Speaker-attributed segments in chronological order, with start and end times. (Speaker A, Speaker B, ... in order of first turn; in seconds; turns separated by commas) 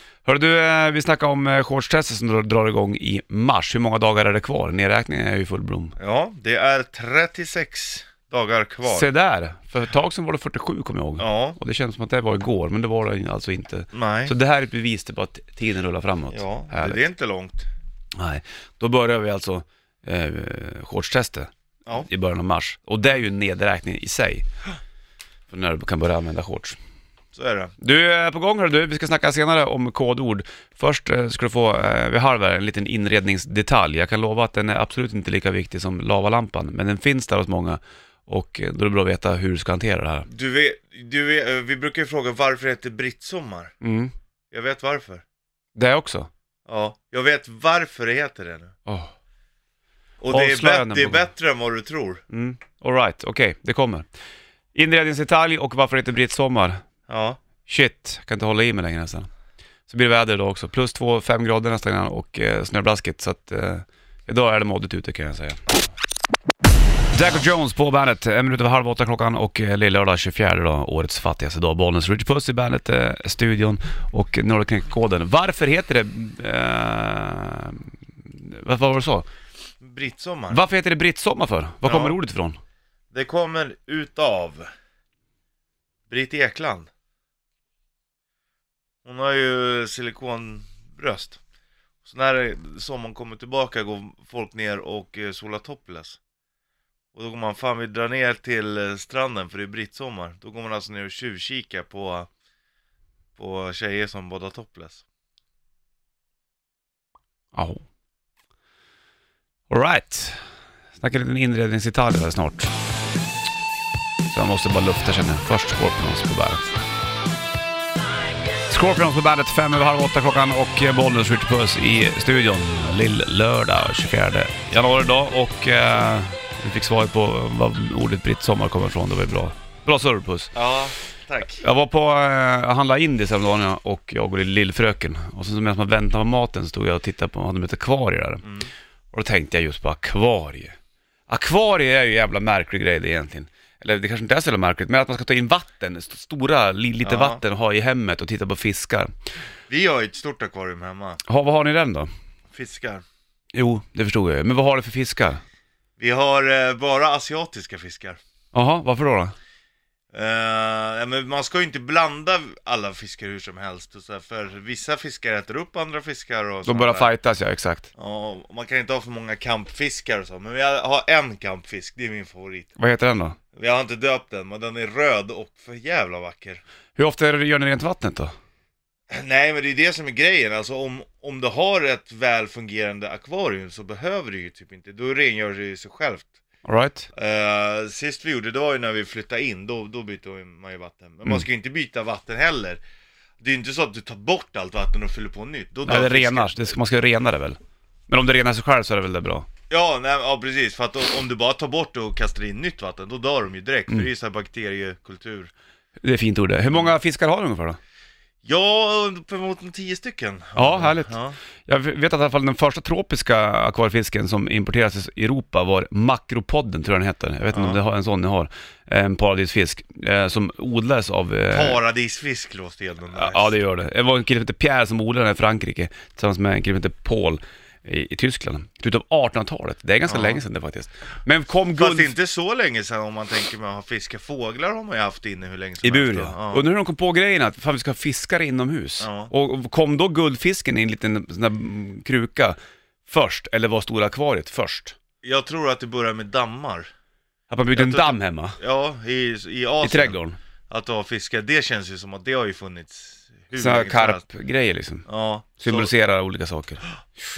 Speaker A: 0.2-5.9, Speaker B: 6.0-9.1, Speaker A: 8.8-17.0, Speaker B: 11.2-11.6, Speaker B: 13.9-14.3, Speaker B: 16.3-17.7, Speaker A: 18.2-24.4, Speaker A: 25.5-26.8, Speaker B: 27.3-27.7, Speaker A: 27.8-40.3, Speaker B: 40.3-43.7, Speaker A: 43.8-44.1, Speaker B: 44.5-45.2, Speaker A: 45.7-46.3, Speaker B: 46.7-48.7, Speaker A: 48.9-49.1, Speaker B: 50.2-52.2, Speaker A: 50.3-51.3, Speaker A: 52.3-54.1, Speaker A: 54.7-56.8, Speaker B: 57.1-57.4, Speaker A: 57.6-59.3, Speaker A: 59.9-65.6, Speaker A: 67.1-79.3, Speaker B: 79.8-80.6, Speaker A: 80.5-82.6, Speaker B: 81.8-82.2, Speaker B: 83.1-84.7, Speaker B: 86.1-86.9, Speaker B: 89.0-91.4, Speaker B: 92.0-96.2, Speaker B: 97.1-102.3, Speaker B: 103.4-105.0, Speaker A: 107.5-107.8, Speaker A: 109.7-110.4, Speaker A: 111.0-112.7, Speaker A: 114.3-116.7, Speaker A: 118.7-130.5, Speaker B: 130.5-131.6, Speaker A: 131.5-138.4, Speaker B: 138.4-138.7, Speaker A: 139.1-140.8, Speaker A: 141.3-149.1, Speaker B: 147.0-147.4, Speaker B: 149.7-151.2, Speaker A: 151.2-152.1, Speaker B: 152.5-153.0, Speaker A: 153.5-155.4, Speaker B: 156.0-158.2, Speaker A: 158.5-159.3, Speaker B: 160.1-167.1, Speaker A: 166.6-167.9, Speaker B: 167.9-172.7, Speaker A: 172.8-173.3, Speaker B: 173.5-176.6, Speaker A: 176.9-178.3, Speaker B: 179.1-186.3, Speaker A: 186.6-187.1, Speaker B: 187.1-192.8, Speaker B: 193.4-196.8, Speaker A: 195.8-197.6, Speaker A: 198.1-199.5, Speaker B: 199.7-205.5, Speaker A: 206.0-207.8, Speaker B: 208.4-211.4, Speaker A: 210.6-221.8, Speaker B: 217.5-217.8, Speaker B: 221.5-223.5, Speaker A: 223.1-232.1, Speaker B: 230.1-230.4, Speaker B: 231.7-236.7, Speaker A: 235.8-244.9, Speaker B: 239.0-239.3, Speaker B: 245.2-246.9, Speaker A: 247.5-248.6, Speaker B: 247.7-250.2, Speaker A: 249.8-250.4, Speaker B: 250.7-254.2, Speaker A: 253.5-255.0, Speaker B: 255.1-255.9, Speaker A: 255.6-256.8